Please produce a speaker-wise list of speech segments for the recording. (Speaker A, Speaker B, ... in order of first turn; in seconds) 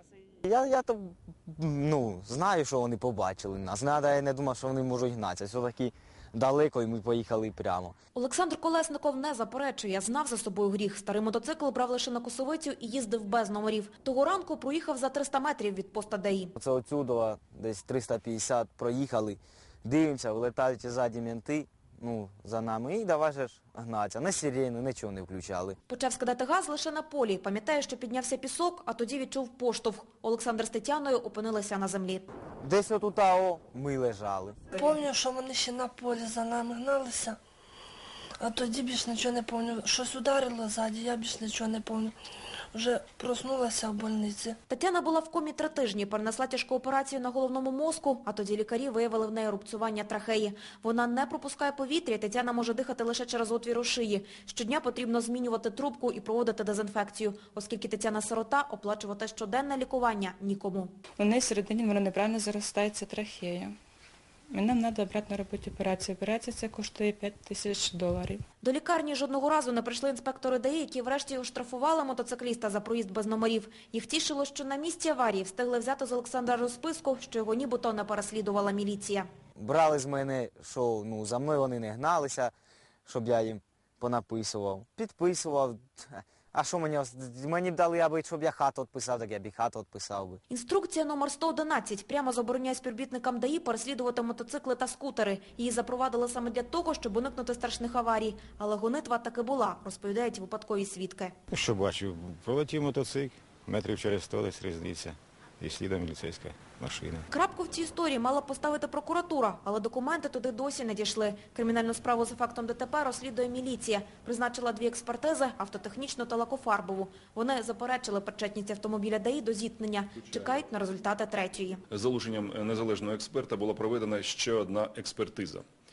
Speaker A: 0.4-8.0, 16.6-25.8, 32.6-34.6, 79.6-82.5, 83.1-90.4
Speaker B: 8.1-16.5, 25.9-32.3, 44.7-60.9, 68.6-79.3, 90.5-101.3, 107.3-121.8
Speaker C: 34.8-37.4, 38.4-42.2, 42.7-44.6
Speaker D: 61.2-63.8, 64.5-68.4
Speaker E: 101.5-107.3
Speaker F: 121.9-125.6